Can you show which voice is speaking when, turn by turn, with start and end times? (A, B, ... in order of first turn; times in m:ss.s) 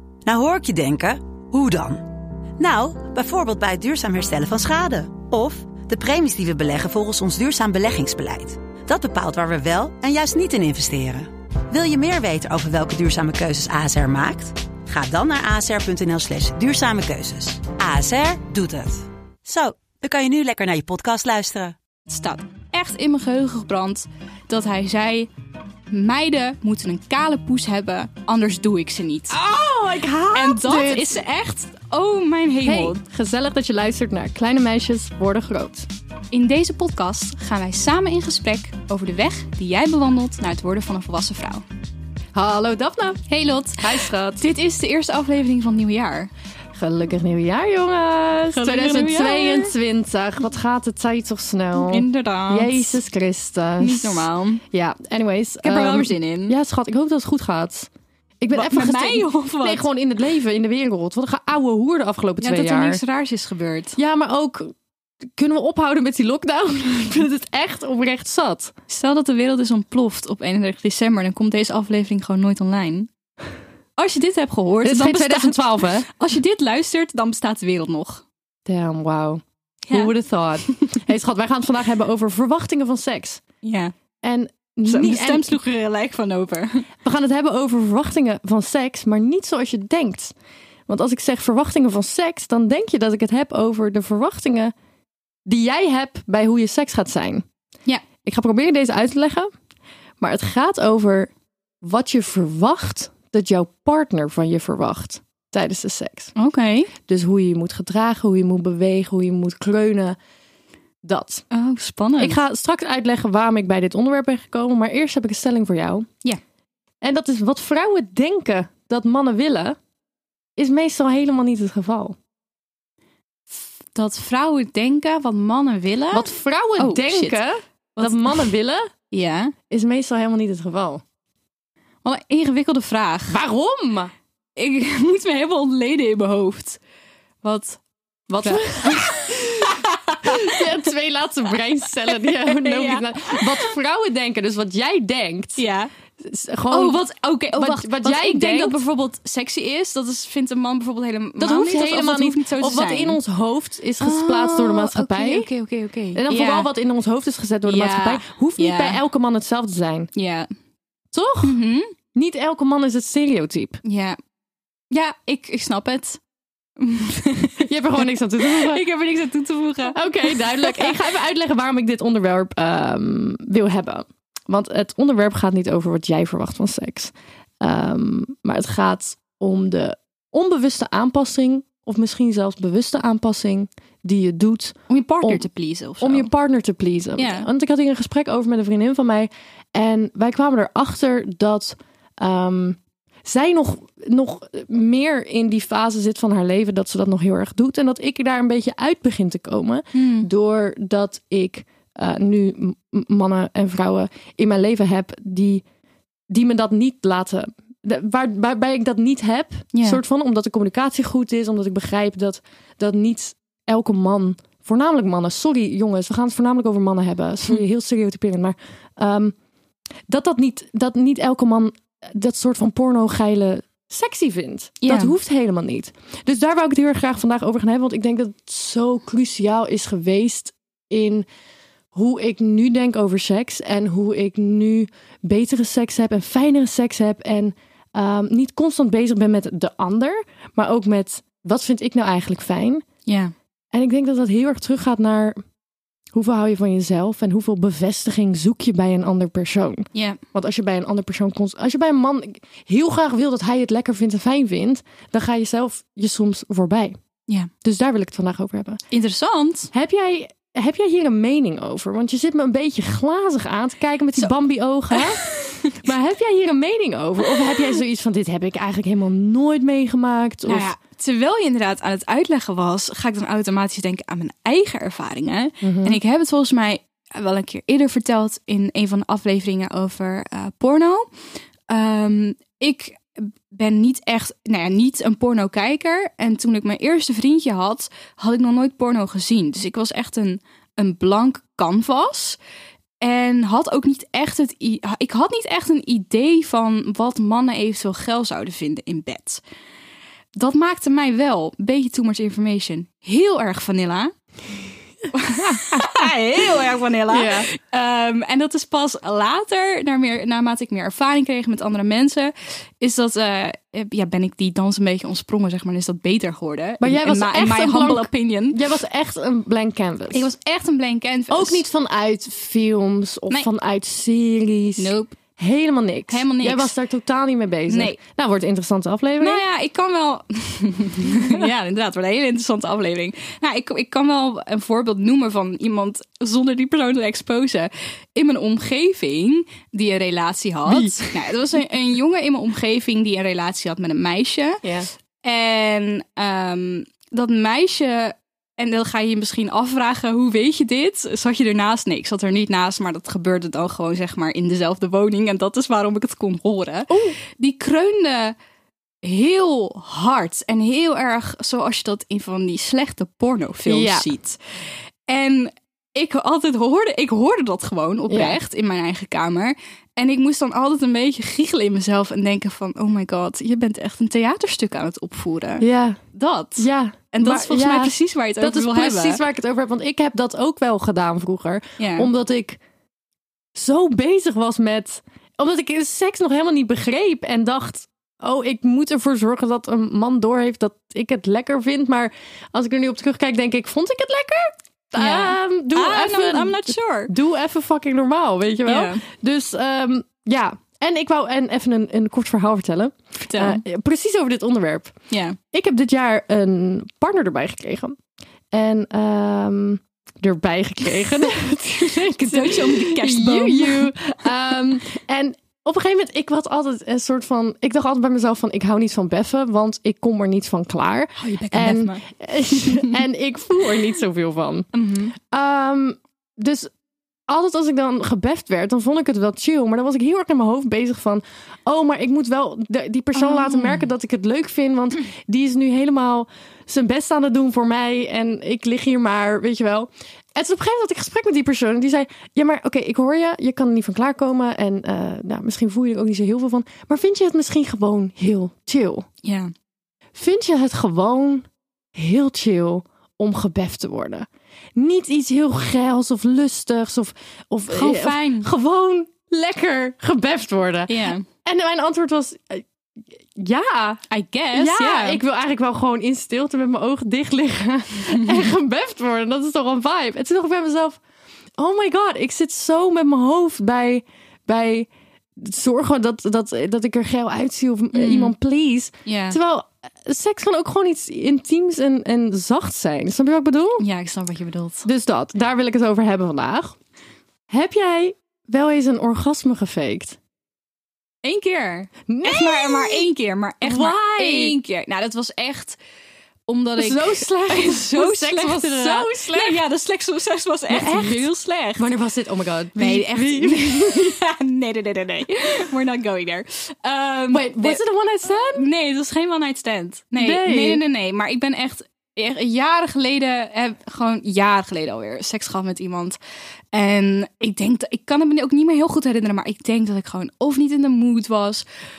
0:00.3-0:21.8 A
0:22.1-0:25.3 B
0:25.9-0:29.4 B
0:29.3-0:31.2 C
0:30.3-0:33.0 B
0:32.6-0:35.9 C
0:36.3-0:41.6 B
0:42.3-0:43.2 C
0:43.3-0:46.3 B
0:43.8-0:44.4 C
0:46.7-0:57.9 C
0:48.5-0:49.7 B
0:51.7-0:53.0 B
0:53.8-0:54.6 B
0:55.6-0:56.6 B
0:58.4-1:03.0 C
0:58.5-0:59.9 B
1:02.4-1:04.0 B
1:04.0-1:04.7 C
1:05.4-1:08.7 C
1:08.9-1:13.1 B
1:14.0-1:18.2 B
1:14.8-1:16.1 C
1:18.7-1:23.4 C
1:23.6-1:23.9 B
1:24.2-1:25.6 C
1:24.8-1:26.9 B
1:27.0-1:30.3 C
1:30.9-1:34.7 C
1:35.5-1:37.4 C
1:38.2-1:39.5 C
1:40.2-1:41.3 C
1:41.8-1:46.3 C
1:46.4-1:46.9 B
1:47.1-1:50.2 C
1:51.0-1:51.4 C
1:51.5-1:52.4 B
1:52.2-1:56.1 C
1:57.0-1:59.8 C
2:00.6-2:02.2 C
2:03.5-2:07.4 B
2:06.1-2:08.9 C
2:08.0-2:08.5 B
2:09.1-2:09.5 B
2:09.7-2:11.0 C
2:12.0-2:13.4 B
2:13.3-2:14.1 C
2:14.6-2:16.8 B
2:17.4-2:17.8 B
2:18.3-2:25.6 C
2:18.4-2:20.6 B
2:22.1-2:23.8 B
2:25.6-2:25.9 B
2:26.2-2:28.8 C
2:26.7-2:33.2 B
2:31.4-2:35.5 C
2:34.0-2:36.7 B
2:36.1-2:40.1 C
2:37.7-2:39.0 B
2:40.1-2:40.5 B
2:41.1-2:41.6 C
2:41.4-2:41.9 B
2:42.2-2:43.8 C
2:43.8-2:44.2 B
2:44.9-2:46.2 B
2:46.8-2:51.0 B
2:47.6-2:48.8 C
2:49.9-3:05.5 C
3:04.9-3:06.3 B
3:06.0-3:25.6 C
3:07.2-3:07.5 B
3:19.9-3:20.3 B
3:26.3-3:39.3 C
3:29.7-3:30.0 B
3:40.1-3:51.2 C
3:44.8-3:45.2 B
3:51.9-4:02.8 C
4:03.0-4:03.3 B
4:03.7-4:05.4 C
4:06.2-4:17.0 C
4:09.9-4:10.2 B
4:17.6-4:18.8 C
4:18.9-4:19.7 B
4:19.7-4:30.7 C
4:24.9-4:25.8 B
4:27.3-4:27.8 B
4:30.4-4:41.1 B
4:35.6-4:36.0 C
4:41.7-4:52.4 B
4:53.0-4:59.4 B
5:00.4-5:04.1 B
5:05.1-5:18.6 B
5:05.4-5:05.9 C
5:07.1-5:07.5 C
5:16.8-5:20.3 C
5:20.1-5:21.6 B
5:21.3-5:29.4 C
5:24.8-5:25.2 B
5:26.1-5:26.7 B
5:27.7-5:28.0 B
5:29.2-5:44.6 B
5:31.2-5:31.4 C
5:40.6-5:41.2 C
5:44.6-5:44.9 C
5:45.2-5:58.4 B
5:56.9-5:57.2 C
5:59.0-6:04.4 B
6:03.6-6:04.1 C
6:05.1-6:19.2 B
6:08.1-6:08.4 C
6:15.6-6:16.0 C
6:16.6-6:22.6 C
6:21.8-6:22.1 B
6:23.5-6:44.9 C
6:35.0-6:37.1 B
6:38.6-6:39.0 B
6:43.2-6:43.6 B
6:45.1-6:45.4 B
6:45.5-6:47.9 C
6:48.5-7:06.7 C
6:51.8-6:53.9 B
7:01.2-7:03.0 B
7:04.7-7:05.2 B
7:07.3-7:29.0 C
7:13.1-7:13.9 B
7:29.2-7:29.5 B
7:30.2-7:42.6 C
7:37.7-7:38.5 B
7:40.9-7:41.2 B
7:43.4-7:51.0 C
7:44.1-7:45.2 B
7:51.6-8:03.8 C
7:57.9-7:58.3 B
7:59.0-7:59.4 B
8:03.8-8:04.9 B
8:04.8-8:06.8 C
8:07.5-8:10.2 C
8:11.2-8:15.8 B
8:12.1-8:13.1 C
8:13.6-8:14.6 C
8:16.5-8:21.9 B
8:16.8-8:19.6 C
8:20.7-8:24.2 C
8:22.8-8:27.8 B
8:27.3-8:28.7 C
8:28.3-8:36.2 B
8:30.2-8:30.8 C
8:36.7-8:41.6 B